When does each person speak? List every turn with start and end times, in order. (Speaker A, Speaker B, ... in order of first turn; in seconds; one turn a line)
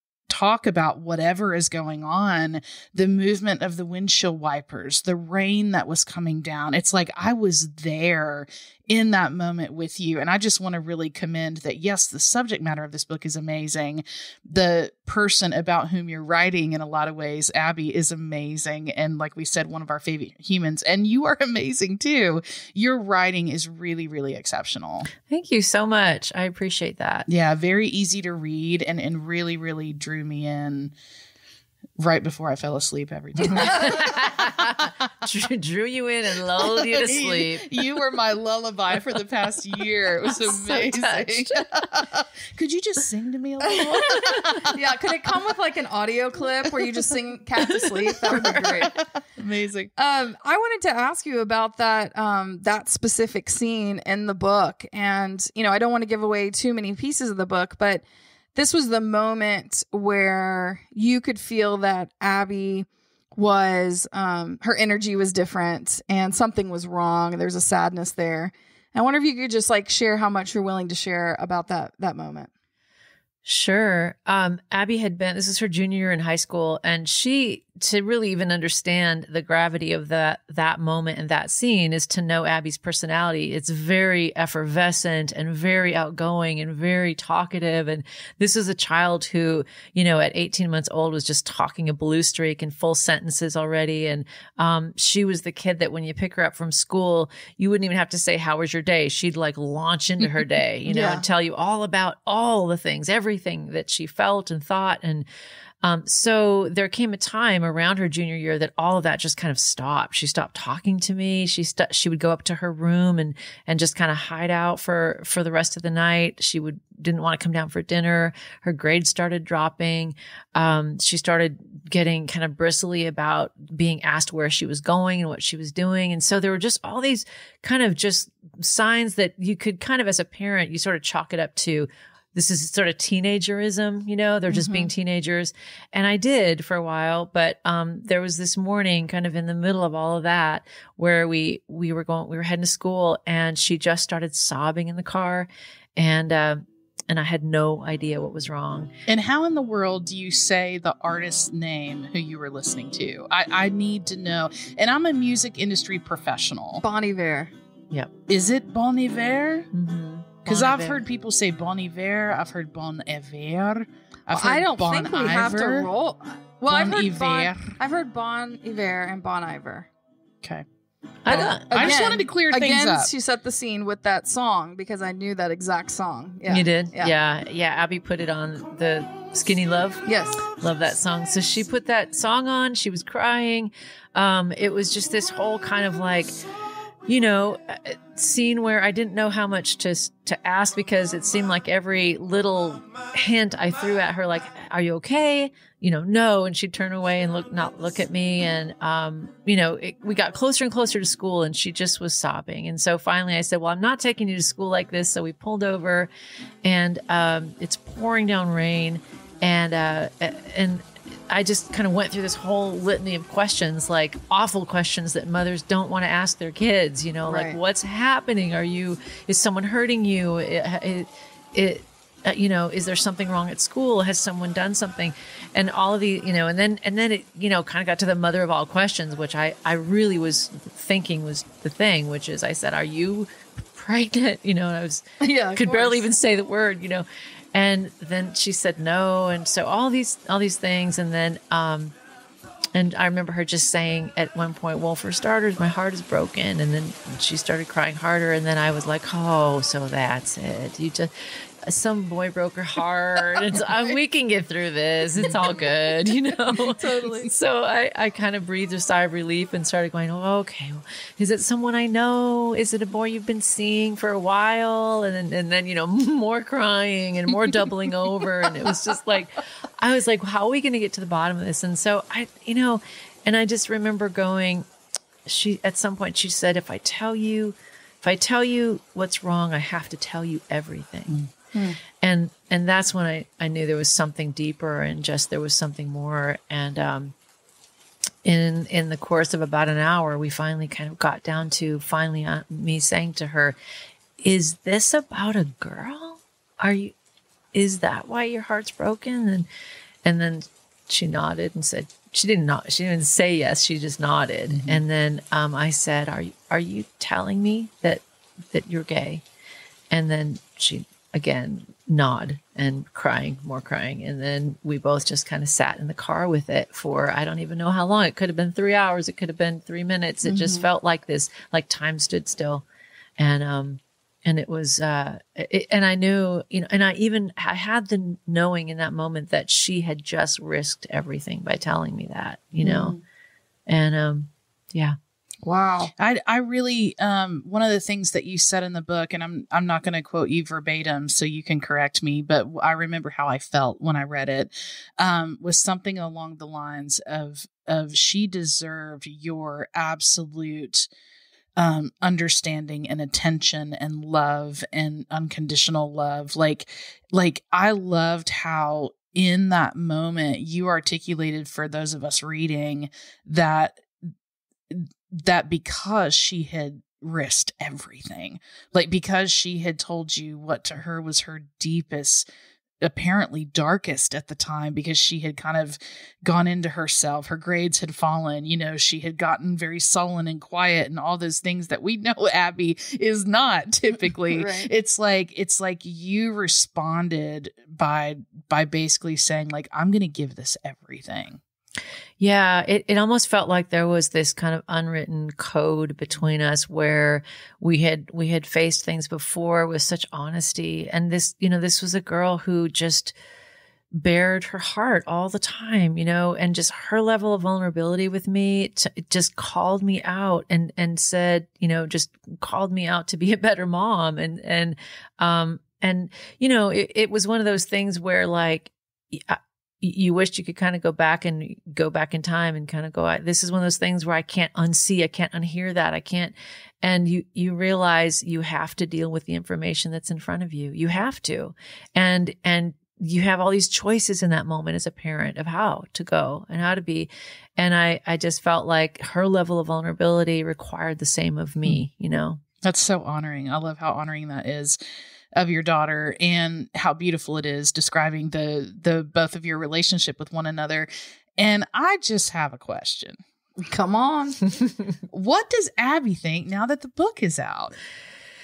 Speaker A: 0.3-25.1
Speaker B: 25.3-27.3
Speaker A: 27.3-30.9
Speaker A: 32.0-34.2
Speaker B: 33.4-37.7
Speaker A: 36.8-44.7
Speaker B: 40.5-42.0
Speaker C: 43.8-49.0
Speaker B: 44.1-44.4
Speaker B: 47.8-48.9
Speaker A: 49.4-49.9
Speaker C: 50.0-72.5
Speaker B: 73.5-105.3
Speaker C: 100.9-101.2
Speaker B: 105.8-148.9
Speaker C: 134.5-134.9
Speaker A: 149.1-156.8
Speaker C: 156.8-157.5
Speaker A: 158.3-159.7
Speaker B: 159.7-161.0
Speaker A: 160.5-165.9
Speaker C: 164.3-169.9
Speaker A: 166.7-167.7
Speaker B: 171.2-172.0
Speaker C: 171.3-177.1
Speaker A: 171.3-173.1
Speaker B: 176.5-186.4
Speaker C: 180.1-180.4
Speaker B: 187.1-206.1
Speaker B: 206.6-241.9
Speaker C: 217.3-217.6
Speaker C: 235.2-236.1
Speaker B: 242.7-251.1
Speaker B: 251.6-274.7
Speaker C: 256.6-257.3
Speaker B: 275.3-281.2
Speaker C: 281.5-281.8
Speaker B: 282.0-287.1
Speaker B: 288.2-293.6
Speaker B: 294.2-296.9
Speaker B: 297.5-299.5
Speaker B: 300.1-309.2
Speaker A: 304.5-304.8
Speaker B: 309.9-322.6
Speaker C: 320.2-320.7
Speaker B: 323.2-332.9
Speaker C: 332.6-333.0
Speaker B: 333.7-335.0
Speaker C: 335.4-335.9
Speaker A: 336.0-350.9
Speaker A: 351.6-363.8
Speaker A: 364.7-372.2
Speaker A: 372.8-391.4
Speaker C: 384.3-384.7
Speaker B: 392.2-403.1
Speaker B: 404.0-442.4
Speaker A: 442.6-444.8
Speaker A: 445.4-453.2
Speaker C: 453.6-454.4
Speaker A: 455.1-457.8